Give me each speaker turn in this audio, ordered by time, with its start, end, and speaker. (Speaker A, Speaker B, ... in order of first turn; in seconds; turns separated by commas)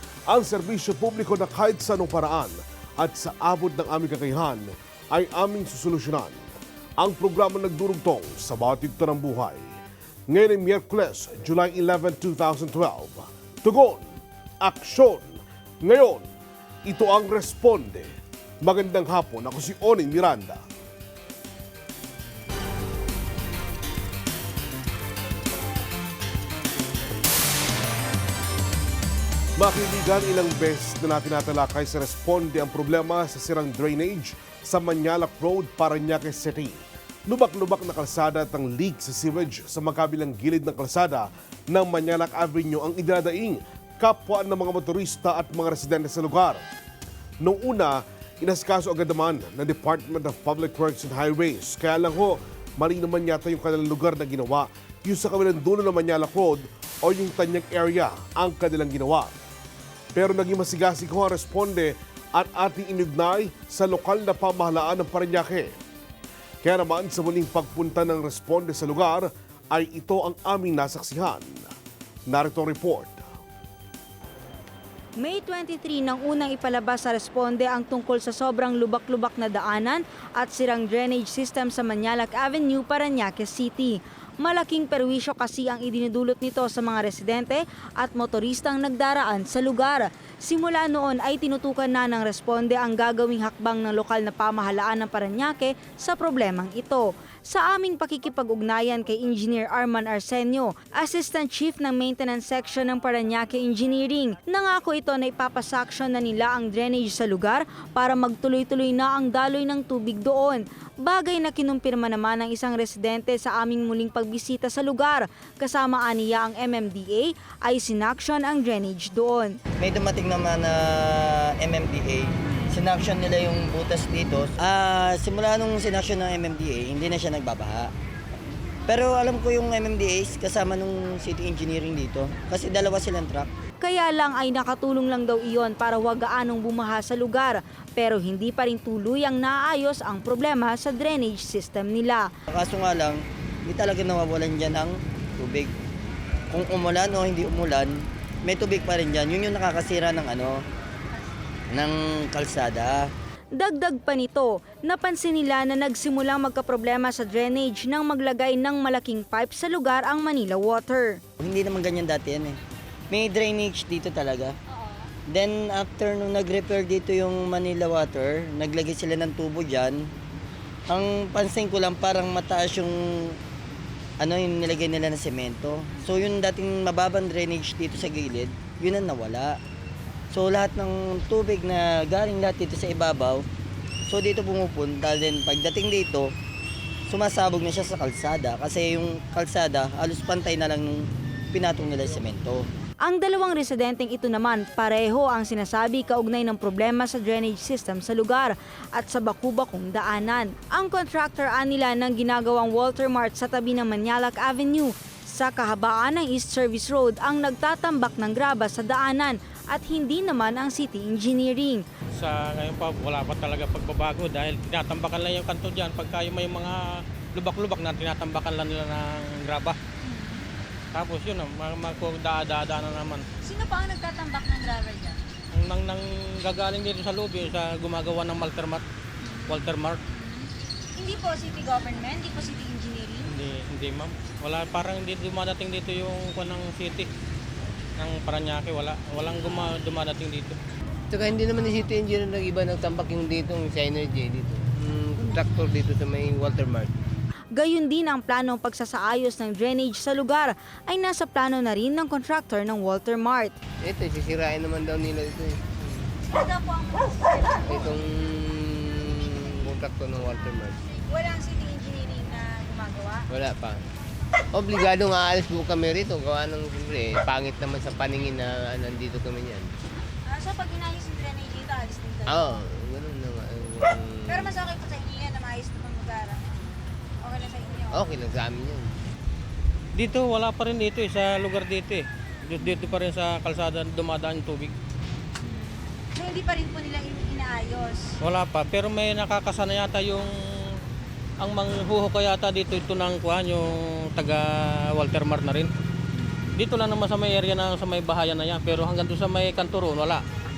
Speaker A: 0.3-6.4, Speaker A: 7.0-9.8, Speaker A: 10.3-14.1, Speaker A: 14.6-16.3, Speaker A: 16.9-20.6, Speaker A: 29.6-46.6, Speaker A: 47.4-59.3, Speaker A: 60.1-65.8, Speaker A: 66.6-71.7, Speaker A: 72.3-73.2, Speaker B: 75.2-119.6, Speaker C: 119.8-127.9, Speaker C: 128.9-133.5, Speaker B: 133.8-142.3, Speaker C: 142.5-145.7, Speaker C: 146.5-150.6, Speaker C: 151.7-153.1, Speaker B: 153.5-161.2, Speaker C: 161.4-162.6, Speaker C: 163.1-164.6, Speaker C: 165.3-170.1, Speaker C: 170.9-173.4, Speaker C: 174.2-179.6, Speaker C: 180.3-183.4, Speaker C: 184.1-186.3, Speaker C: 187.1-192.7, Speaker B: 193.0-211.8, Speaker D: 212.1-219.8, Speaker B: 220.0-220.4, Speaker D: 220.9-223.2, Speaker B: 223.4-225.2, Speaker D: 225.5-228.8, Speaker B: 229.2-233.3, Speaker D: 229.5-230.0, Speaker D: 233.3-237.1, Speaker D: 238.0-240.6, Speaker E: 241.1-246.9, Speaker B: 247.5-253.5, Speaker E: 253.8-256.1, Speaker B: 256.3-257.7, Speaker E: 257.6-260.8, Speaker B: 260.9-263.3, Speaker E: 263.3-263.8, Speaker E: 264.5-269.7, Speaker B: 270.2-272.4, Speaker E: 272.2-274.6, Speaker B: 274.3-276.5, Speaker B: 277.2-277.9, Speaker E: 277.9-279.0, Speaker D: 279.9-284.7, Speaker B: 285.4-288.1, Speaker D: 288.2-290.8, Speaker D: 291.4-295.7, Speaker D: 296.5-300.2